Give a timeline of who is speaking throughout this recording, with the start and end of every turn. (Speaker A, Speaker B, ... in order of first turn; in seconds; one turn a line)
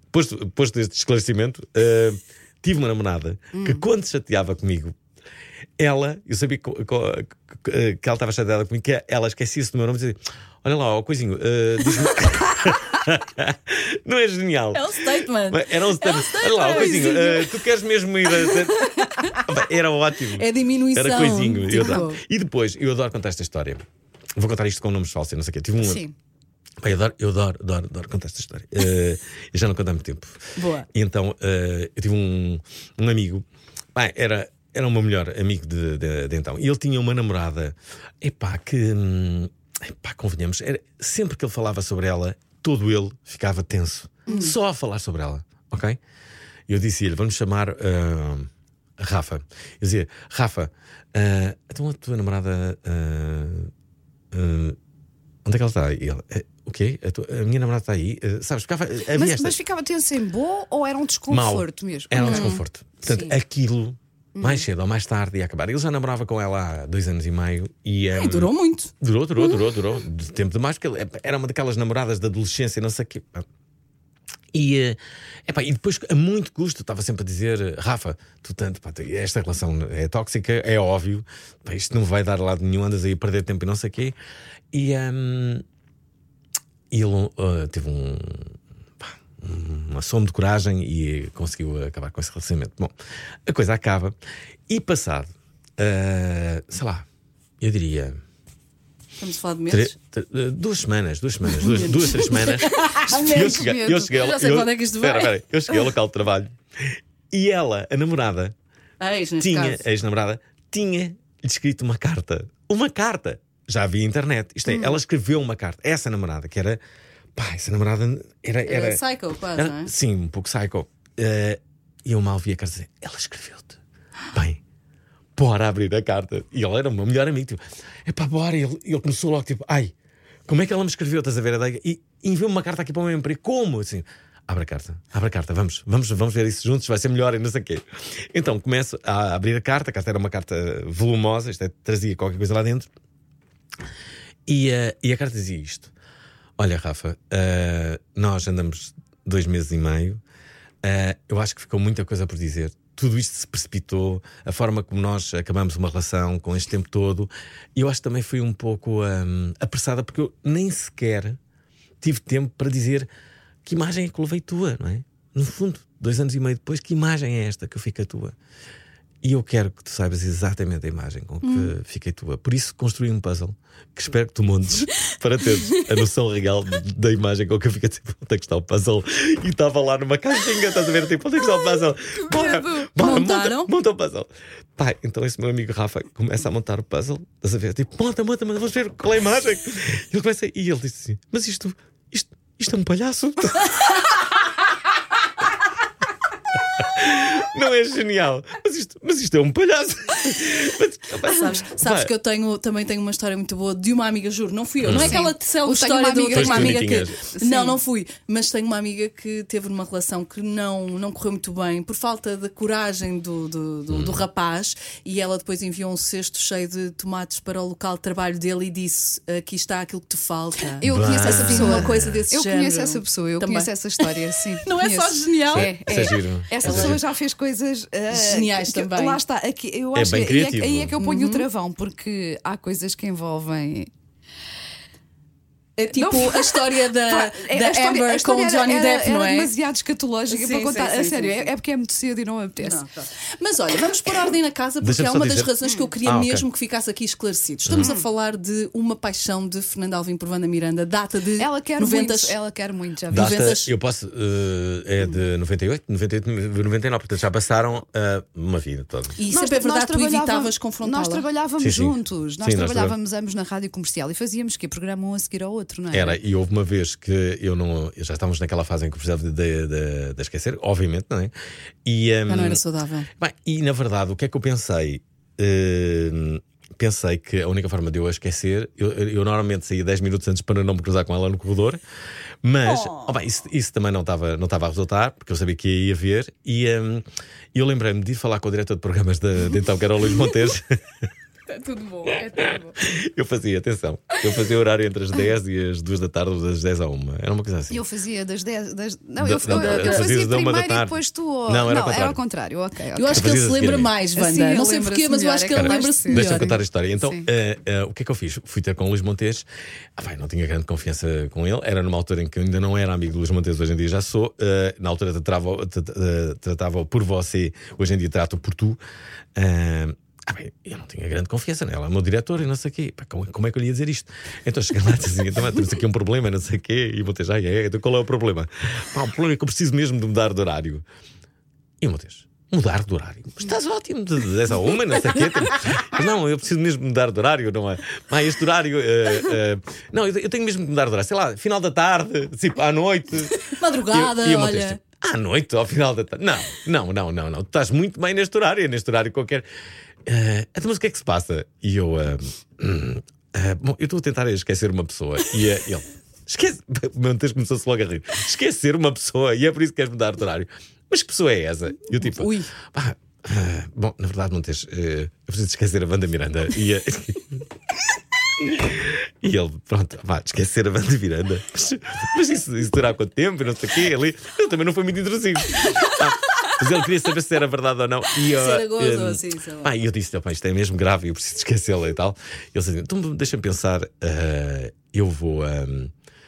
Speaker A: 0.1-4.9
Speaker B: 3.5-3.9
Speaker A: 5.8-23.8
Speaker C: 14.7-17.4
Speaker B: 16.6-17.3
Speaker B: 18.5-19.2
Speaker C: 20.4-22.2
Speaker B: 21.8-22.0
Speaker A: 24.4-26.0
Speaker B: 25.8-26.1
Speaker A: 26.8-46.0
Speaker C: 30.6-30.9
Speaker B: 44.3-44.5
Speaker A: 46.7-53.7
Speaker A: 54.3-54.8
Speaker A: 55.4-59.5
Speaker B: 59.1-63.4
Speaker A: 61.3-73.5
Speaker C: 62.2-62.6
Speaker B: 64.3-64.6
Speaker C: 68.2-68.9
Speaker B: 69.4-69.6
Speaker A: 74.5-84.1
Speaker A: 84.7-85.6
Speaker A: 86.9-92.9
Speaker A: 93.5-94.2
Speaker A: 94.7-97.0
Speaker A: 97.6-98.2
Speaker C: 99.2-99.9
Speaker A: 99.7-108.5
Speaker C: 101.5-105.3
Speaker B: 102.9-104.1
Speaker C: 109.0-109.8
Speaker A: 109.4-116.8
Speaker B: 114.7-115.0
Speaker A: 117.3-119.0
Speaker C: 118.6-119.9
Speaker A: 119.5-123.8
Speaker A: 124.3-124.6
Speaker A: 125.3-129.9
Speaker A: 130.5-142.9
Speaker A: 144.5-145.9
Speaker A: 146.6-150.2
Speaker A: 150.8-161.4
Speaker A: 162.0-163.1
Speaker A: 163.6-168.3
Speaker A: 169.2-194.1
Speaker C: 171.4-171.7
Speaker B: 182.3-182.9
Speaker C: 183.0-183.7
Speaker A: 196.7-202.1
Speaker C: 201.2-227.0
Speaker A: 204.8-205.2
Speaker B: 204.9-207.8
Speaker A: 206.3-207.2
Speaker A: 213.9-214.2
Speaker B: 220.8-233.9
Speaker A: 220.8-222.2
Speaker A: 225.5-227.0
Speaker C: 228.1-229.2
Speaker A: 229.9-230.9
Speaker C: 231.0-231.5
Speaker C: 235.8-239.5
Speaker B: 235.9-243.0
Speaker C: 240.3-241.5
Speaker C: 242.6-252.3
Speaker A: 244.8-245.5
Speaker A: 246.0-246.4
Speaker B: 247.8-248.1
Speaker B: 251.4-253.4
Speaker A: 253.1-259.2
Speaker C: 253.1-253.7
Speaker C: 259.2-261.2
Speaker B: 259.3-266.2
Speaker A: 261.6-262.9
Speaker A: 265.9-271.3
Speaker A: 271.8-272.6
Speaker C: 272.2-273.1
Speaker A: 273.2-281.8
Speaker A: 282.4-291.1
Speaker B: 291.5-292.7
Speaker A: 292.4-297.8
Speaker B: 297.7-303.2
Speaker A: 299.2-302.2
Speaker C: 299.5-300.1
Speaker C: 302.9-306.5
Speaker A: 303.1-303.9
Speaker B: 304.1-307.3
Speaker A: 305.6-309.4
Speaker A: 310.0-318.8
Speaker A: 319.3-330.8
Speaker A: 331.8-349.4
Speaker C: 343.3-344.8
Speaker A: 350.1-367.4
Speaker C: 362.1-362.5
Speaker A: 368.4-385.9
Speaker C: 378.3-379.7